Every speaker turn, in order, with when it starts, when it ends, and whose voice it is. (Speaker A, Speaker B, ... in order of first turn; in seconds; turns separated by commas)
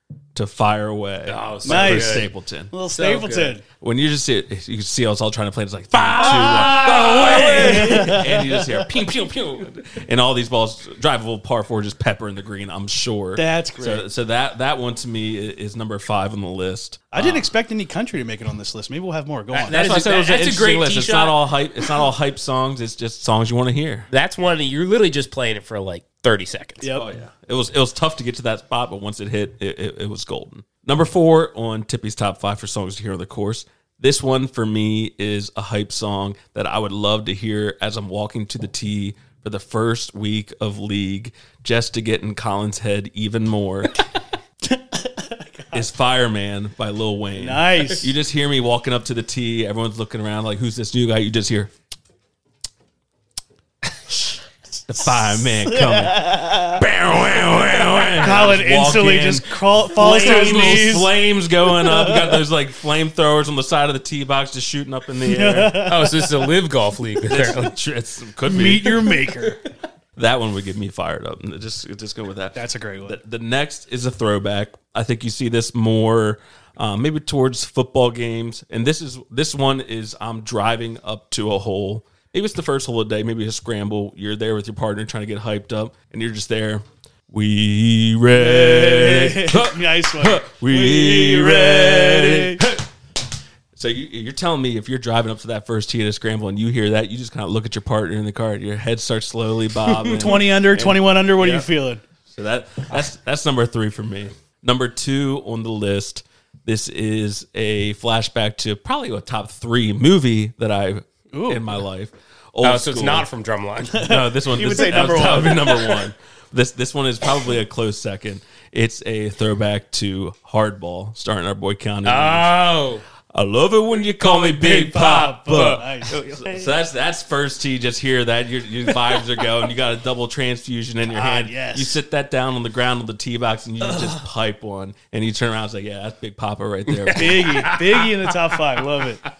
Speaker A: 0.3-2.7, Speaker B: 1.2-2.3, Speaker C: 1.6-3.6, Speaker B: 2.9-3.6, Speaker A: 3.8-17.5, Speaker B: 5.9-8.2, Speaker C: 6.2-8.6, Speaker C: 13.4-14.0, Speaker C: 17.1-19.8, Speaker A: 19.5-24.1, Speaker B: 19.6-21.4, Speaker B: 24.1-26.9, Speaker A: 26.9-44.1, Speaker C: 44.6-45.8, Speaker A: 45.7-51.7, Speaker C: 47.4-48.1, Speaker A: 54.9-65.9, Speaker C: 55.1-56.8, Speaker C: 58.1-61.1, Speaker B: 60.0-60.9, Speaker C: 61.7-62.4, Speaker C: 65.2-66.2, Speaker B: 65.8-67.7, Speaker A: 67.2-69.5, Speaker C: 68.5-69.6, Speaker A: 70.2-92.9, Speaker C: 72.5-73.2, Speaker C: 88.3-92.6, Speaker A: 93.7-101.7, Speaker C: 100.1-102.0, Speaker A: 102.3-113.3, Speaker C: 111.3-111.8, Speaker B: 112.6-114.1, Speaker C: 113.9-115.9, Speaker A: 114.0-122.5, Speaker B: 114.9-115.5, Speaker B: 122.0-123.0, Speaker A: 123.3-137.7, Speaker C: 124.2-126.7, Speaker B: 125.4-125.8, Speaker C: 131.1-132.0, Speaker B: 136.9-137.8, Speaker C: 137.1-139.2